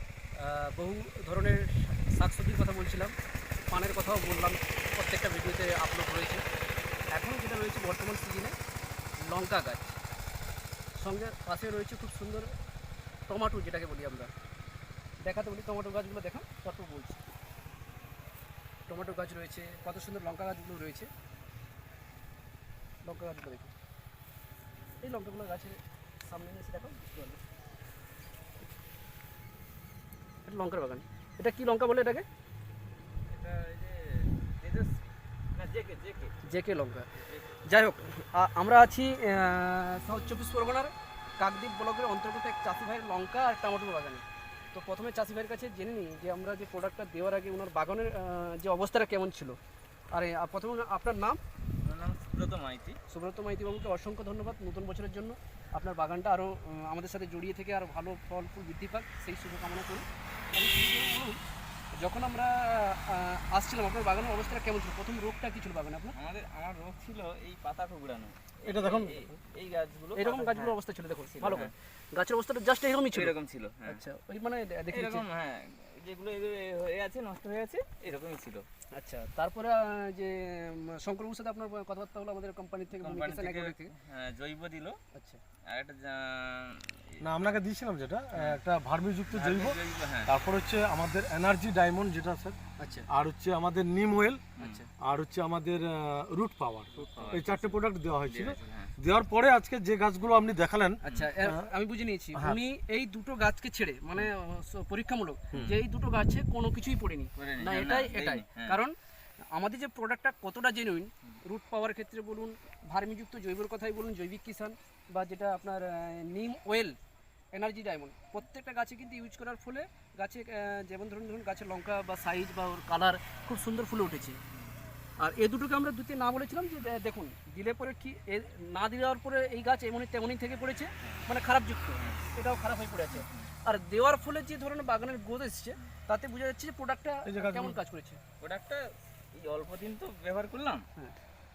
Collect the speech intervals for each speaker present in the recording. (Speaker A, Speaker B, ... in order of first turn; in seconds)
Speaker A: 0.4-3.1, 3.7-6.4, 7.1-8.6, 9.2-10.0, 11.0-12.5, 13.3-14.3, 15.2-17.2, 18.9-21.1, 23.1-23.7, 25.0-27.4, 30.4-32.3, 36.4-37.1, 37.7-49.6, 50.1-51.4, 53.1-61.4, 62.0-66.2, 70.2-73.3, 73.9-75.2, 78.9-83.9, 85.1-85.4, 92.8-93.1, 94.6-94.9, 101.0-108.9, 109.5-117.0, 117.5-124.4, 125.2-138.2
Speaker B: 33.3-36.4, 37.1-37.8, 51.8-53.0, 66.2-70.8, 71.3-71.7, 73.1-74.0, 74.9-78.7, 83.0-85.0, 85.7-87.2, 88.3-88.6, 89.3-90.3, 94.6-94.8, 97.0-98.9, 101.1-101.4, 107.4-108.8, 131.0-131.3, 132.0-132.3, 133.1-133.5, 138.4-140.9
Speaker C: 68.7-69.2, 87.2-92.6, 93.1-94.4, 95.0-101.6, 102.3-102.6, 137.2-137.8